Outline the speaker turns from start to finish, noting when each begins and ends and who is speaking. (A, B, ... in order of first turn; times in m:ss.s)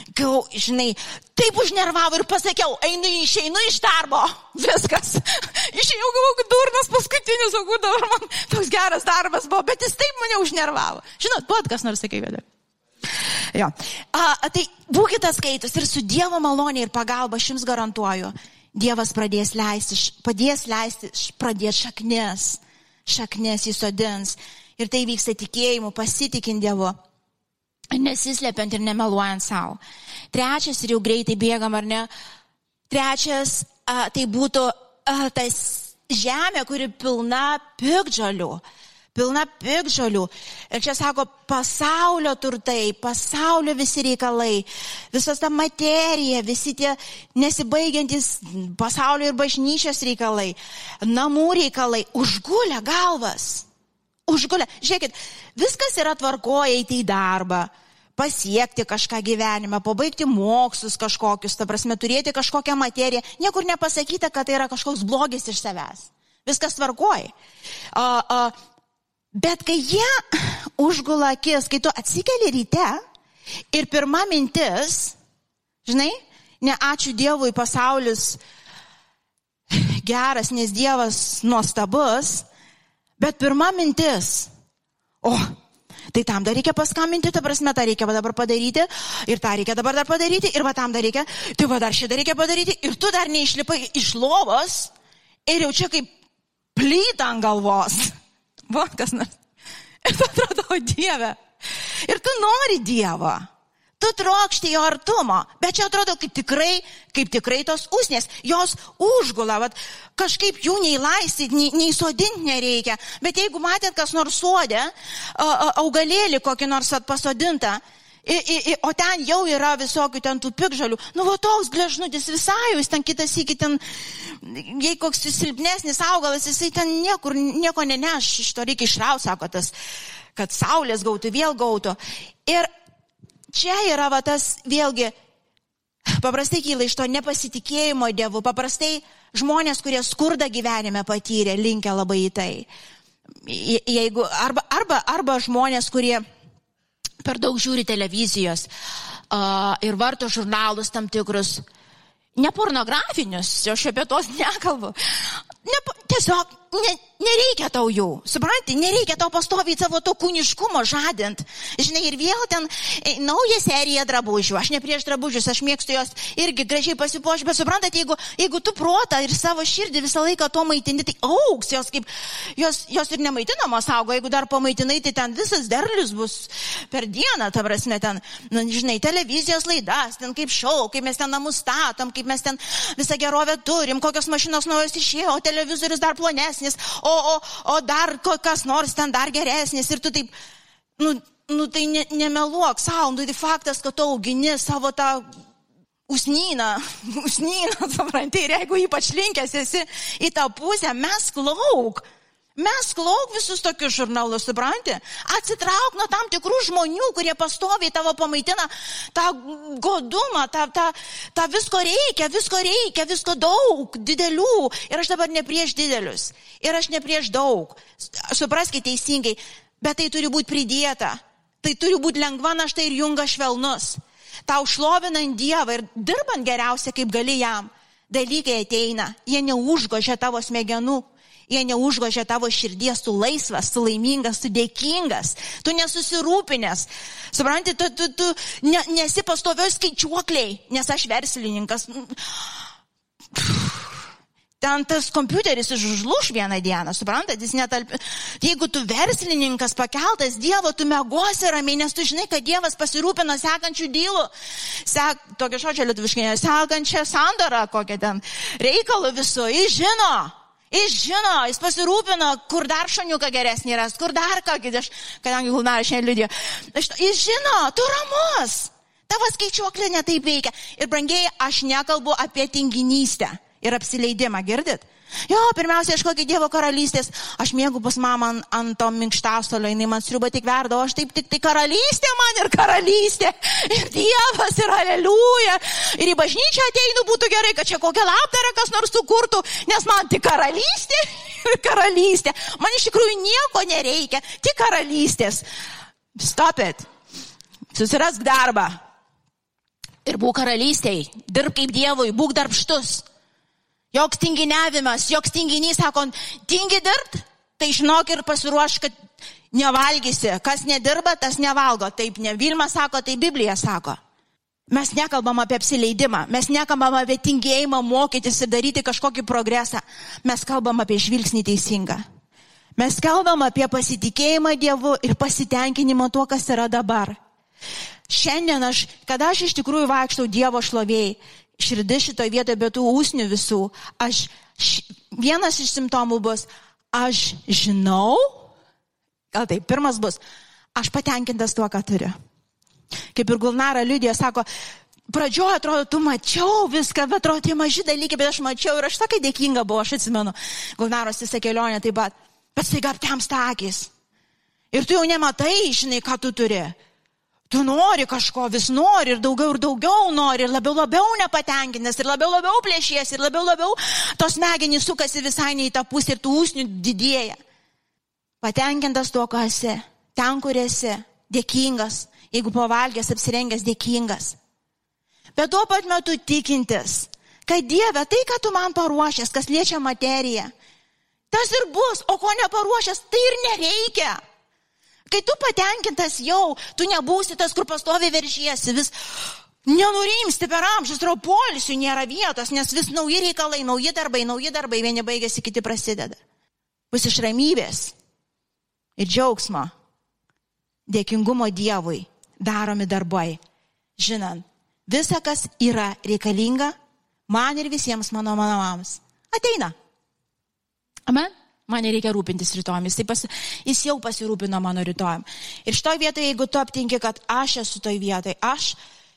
0:00.1-0:12.4 A
0:13.5-0:26.9 A
0:27.9-0:29.8 A
0:30.3-0:32.1 A
0:32.9-0:38.6 A
0:39.1-0:53.6 A
0:54.3-1:07.3 A
1:07.9-1:08.5 A
1:09.3-1:13.0 A
1:13.7-1:15.1 A
1:15.8-1:18.4 A
1:19.7-1:22.4 A
1:23.2-1:24.5 A
1:25.2-1:25.5 A
1:26.1-1:34.9 A
1:35.5-1:36.1 A
1:36.7-1:38.1 A
1:38.7-1:39.3 A
1:40.0-1:41.4 A
1:42.0-1:43.4 A
1:44.0-2:09.7 A
2:10.4-2:12.7 A
2:13.5-2:15.1 A
2:16.2-2:22.7 A
2:23.4-2:26.2 A
2:27.2-2:28.7 A
2:29.3-2:31.6 A
2:32.4-3:10.3 A
3:11.0-3:15.2 A
3:16.1-3:22.0 A
3:22.6-4:02.5 A
4:03.3-4:03.9 A
4:04.6-4:14.3 A
4:14.8-4:55.4 A
4:56.2-4:56.8 A
4:57.7-4:58.8 A
5:00.0-5:03.0 A
5:03.9-5:08.9 A
5:09.5-5:14.0 A
5:14.7-5:22.0 A
5:22.8-5:27.2 A
5:28.1-5:38.4 A
5:39.3-5:40.2 A
5:40.8-5:42.1 A
5:43.1-5:44.4 A
5:45.1-5:53.9 A
5:54.7-5:56.8 A
5:57.5-6:07.4 A
6:08.4-6:14.4 A
6:15.4-6:20.5 A
6:21.3-6:24.2 A
6:25.1-6:28.9 A
6:29.6-6:36.2 A
6:36.9-6:37.9 A
6:39.0-6:39.7 A
6:40.9-6:43.4 A
6:44.0-6:46.7 A
6:47.3-6:49.7 A
6:51.1-6:58.8 A